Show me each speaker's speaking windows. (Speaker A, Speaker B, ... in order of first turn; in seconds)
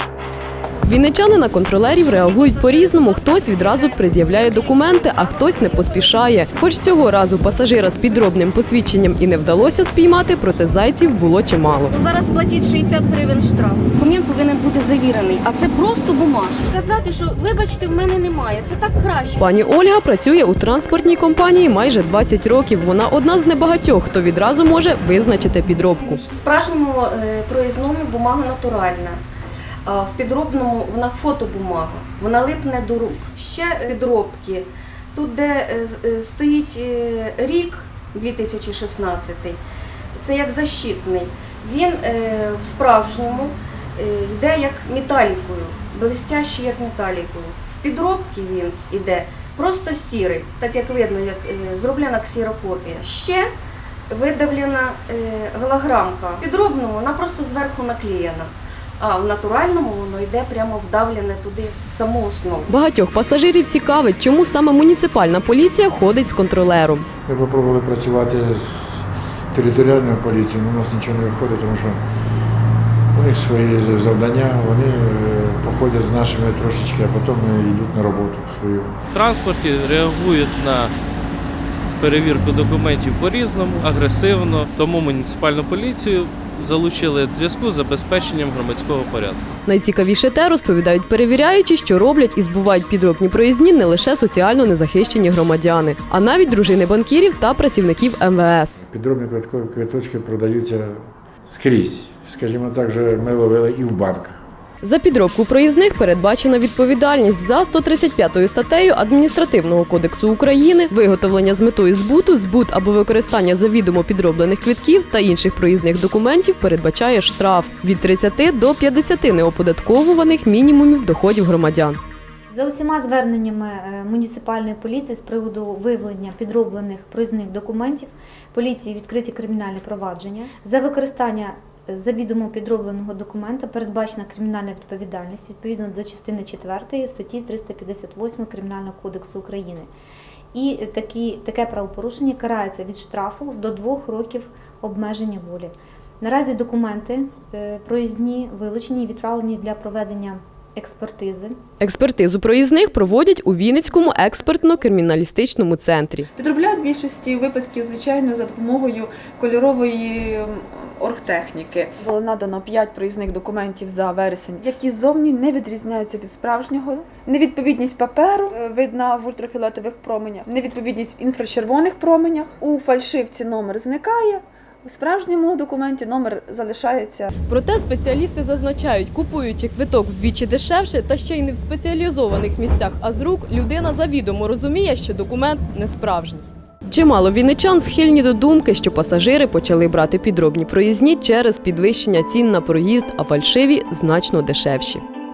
Speaker A: 0.8-11.9, 19.4-26.2, 62.7-67.1, 89.7-98.8, 104.8-122.0, 151.8-156.3, 177.5-195.0
Speaker B: 2.2-6.0, 11.9-19.4, 26.2-29.2, 29.9-39.6, 40.2-53.5, 54.1-62.7
Speaker C: 67.3-72.0, 73.1-79.0, 98.8-104.4
Speaker D: 79.1-80.9, 82.0-89.5
Speaker E: 122.5-139.9, 140.5-151.6
Speaker F: 156.4-177.3